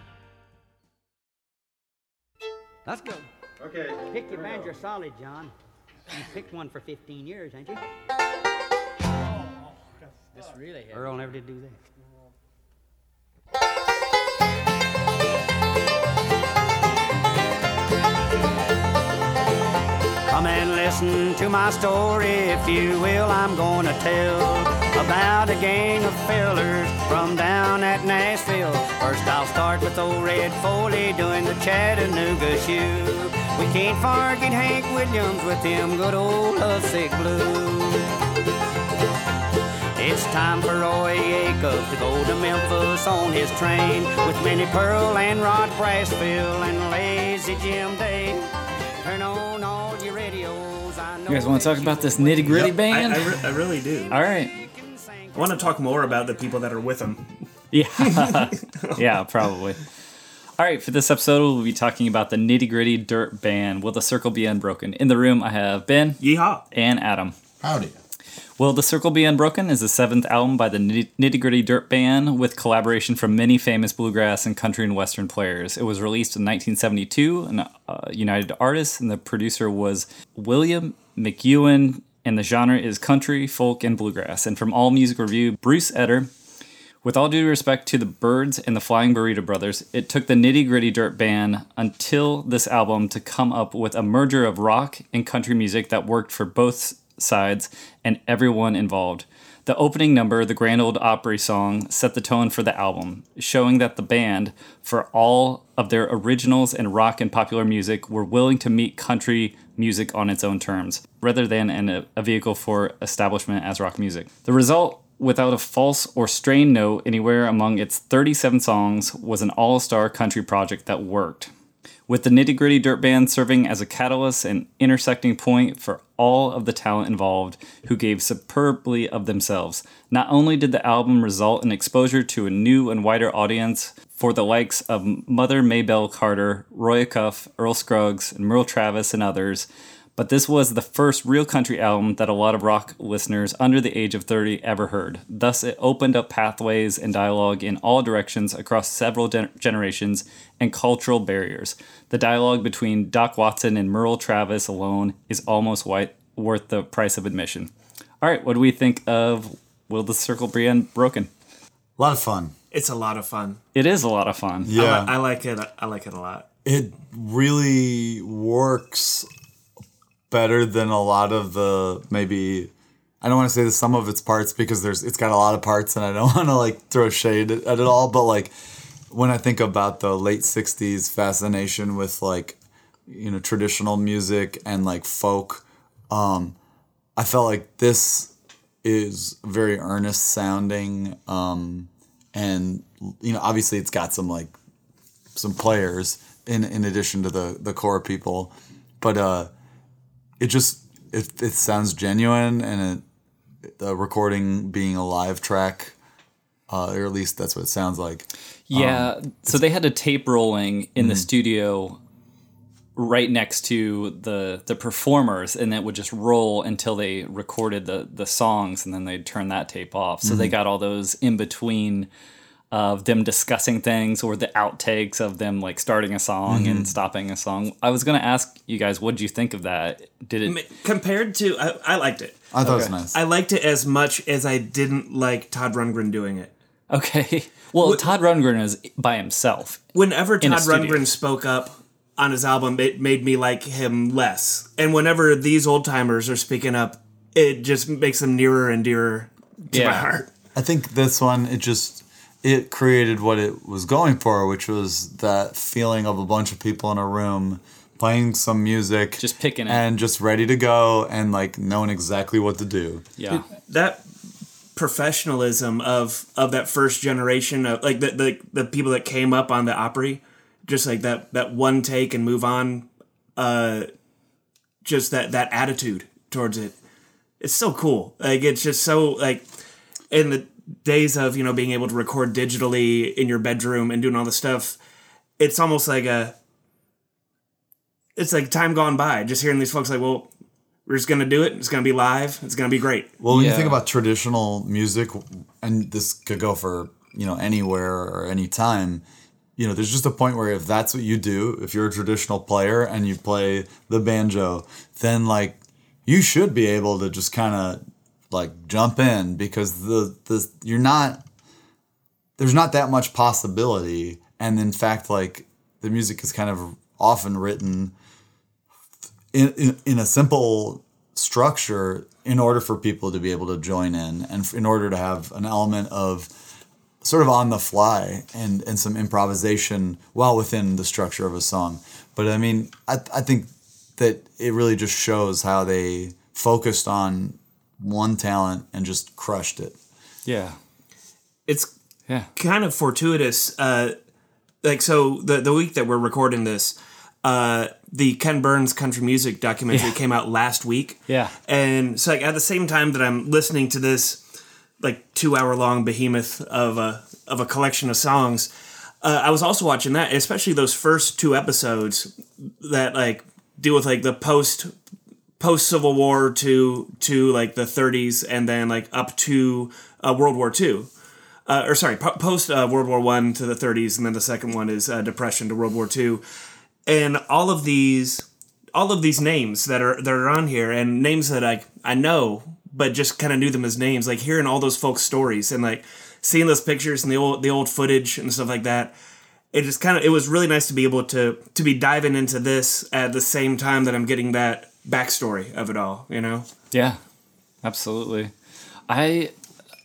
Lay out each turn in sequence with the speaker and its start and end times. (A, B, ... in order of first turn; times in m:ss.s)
0:02.8-0:03.3 A
0:03.8-0:05.5 A
0:06.1-0:07.8 A
0:10.9-0:11.8 A
0:20.3-0:38.1 A
0:40.0-0:52.7 A
0:51.3-0:53.4 B
0:52.5-0:54.2 C
0:54.1-0:54.6 B
0:54.5-0:56.5 A
0:55.3-0:57.4 C
0:57.7-0:59.8 B
0:58.0-0:59.0 C
1:00.6-1:07.3 B
1:06.2-1:06.6 C
1:07.6-1:07.9 D
1:08.6-1:26.3 B
1:27.0-2:01.5 B
2:02.1-2:41.3 B
2:42.0-2:42.5 D
2:42.7-2:43.6 C
2:43.7-2:44.7 B
2:44.6-2:45.1 D
2:44.7-2:46.4 C
2:46.6-2:49.3 D
2:50.3-2:52.7 D
2:53.2-2:58.5 D
2:59.1-3:06.6 D
3:07.2-3:08.3 D
3:08.8-3:14.5 D
3:15.3-3:19.5 D
3:20.4-3:23.0 D
3:23.6-3:25.9 D
3:26.7-3:29.6 D
3:28.7-3:32.0 B
3:31.0-3:31.3 D
3:33.0-3:42.1 B
3:40.2-3:40.5 D
3:42.7-3:50.6 B
3:46.5-3:46.9 D
3:50.4-3:52.5 C
3:52.5-3:53.2 D
3:52.6-3:52.9 B
3:53.1-3:56.5 C
3:56.9-3:59.8 B
3:59.9-4:10.3 C
4:00.4-4:01.0 B
4:09.7-4:10.1 B
4:10.5-4:23.0 D
4:19.2-4:19.8 B
4:23.2-4:23.4 B
4:23.3-4:24.0 C
4:24.8-4:33.9 C
4:34.8-4:36.7 C
4:37.4-4:39.5 C
4:40.1-4:44.8 C
4:45.4-4:46.3 C
4:48.2-4:50.3 C
4:50.8-4:53.1 C
4:53.2-4:59.0 D
4:53.3-4:53.8 B
4:59.6-5:11.2 D
5:12.4-5:17.9 D
5:19.3-5:26.3 D
5:27.0-5:39.8 D
5:40.2-5:40.6 B
5:42.3-5:43.9 C
5:44.6-5:54.2 C
5:51.1-5:51.3 B
5:54.8-5:58.5 C
5:59.0-6:04.7 C
6:05.4-6:10.9 C
6:11.5-6:16.2 C
6:16.8-6:28.9 C
6:29.5-6:36.5 C
6:36.7-6:37.0 B
6:37.6-6:38.3 B
6:38.9-6:39.3 B